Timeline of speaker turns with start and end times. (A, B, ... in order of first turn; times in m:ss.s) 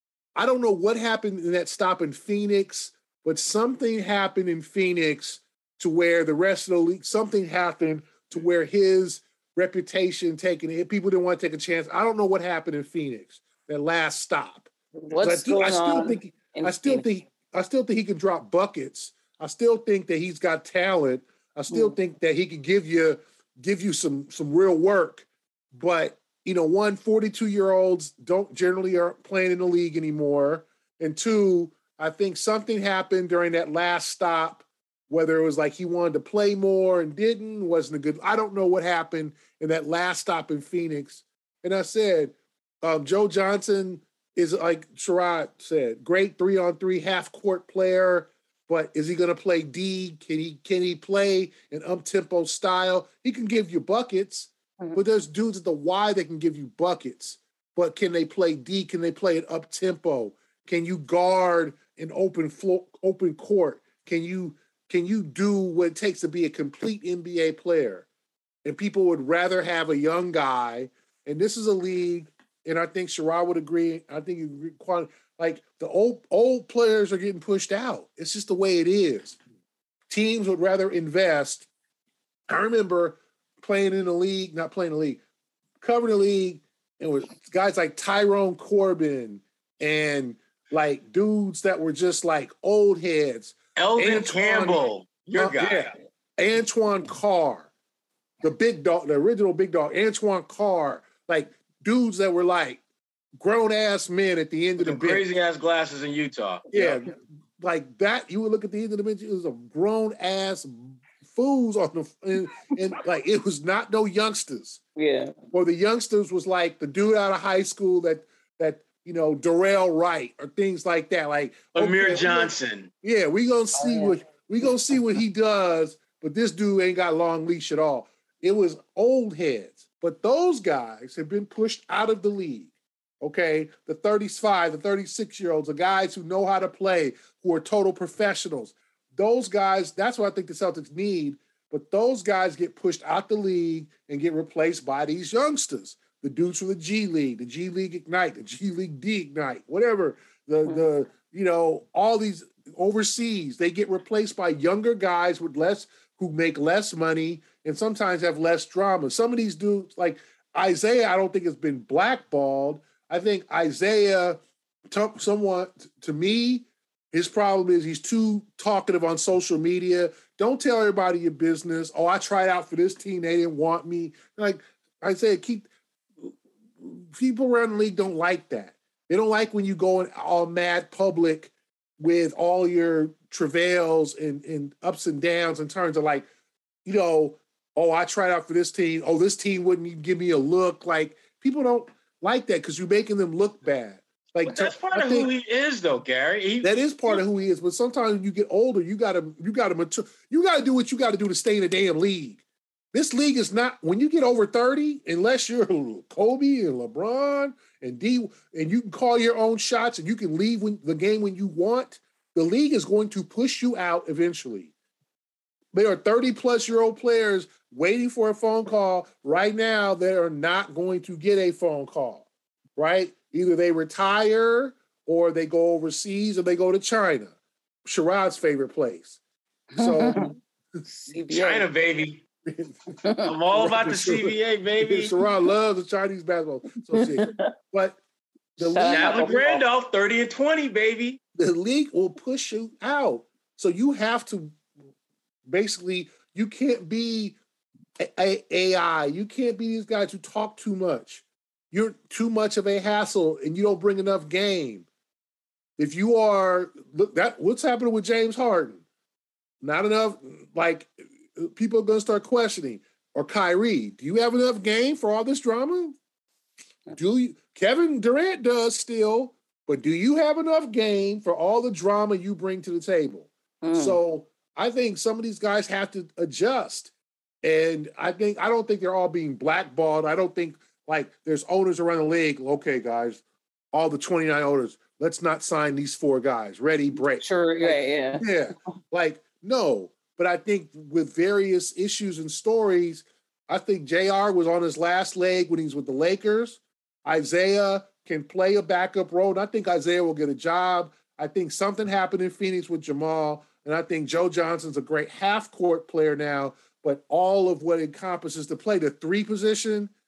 0:00.4-1:08.0 A
0:15.0-0:17.0 B
1:08.6-1:19.4 A
1:20.1-1:21.7 A
1:22.5-1:25.2 A
1:25.8-1:34.8 A
1:33.8-1:35.9 C
1:35.3-1:37.7 A
1:38.4-1:42.8 A
1:43.4-1:45.2 A
1:44.8-1:47.0 C
1:46.7-1:54.8 A
1:55.0-1:55.3 B
1:55.5-2:44.4 A
2:01.7-2:02.9 C
2:03.7-2:04.2 B
2:44.9-2:55.7 A
2:56.2-3:06.3 A
3:06.8-3:15.3 A
3:14.4-3:17.2 C
3:16.6-3:34.7 A
3:35.7-3:49.2 A
3:49.7-3:50.3 A
3:49.7-3:50.3 B
3:50.8-3:51.6 B
3:51.3-3:52.2 C
3:52.4-3:53.0 A
3:53.0-3:53.3 B
3:53.2-3:55.1 C
3:53.5-3:58.0 A
3:57.0-3:57.5 B
3:58.6-3:59.4 A
3:58.6-3:59.6 B
3:58.8-4:01.2 C
4:01.4-4:04.6 A
4:05.5-4:07.4 A
4:08.0-4:14.9 A
4:15.8-4:18.8 A
4:19.6-4:26.0 A
4:26.9-4:36.9 A
4:33.6-4:34.0 B
4:37.4-5:09.9 A
4:47.1-4:48.2 B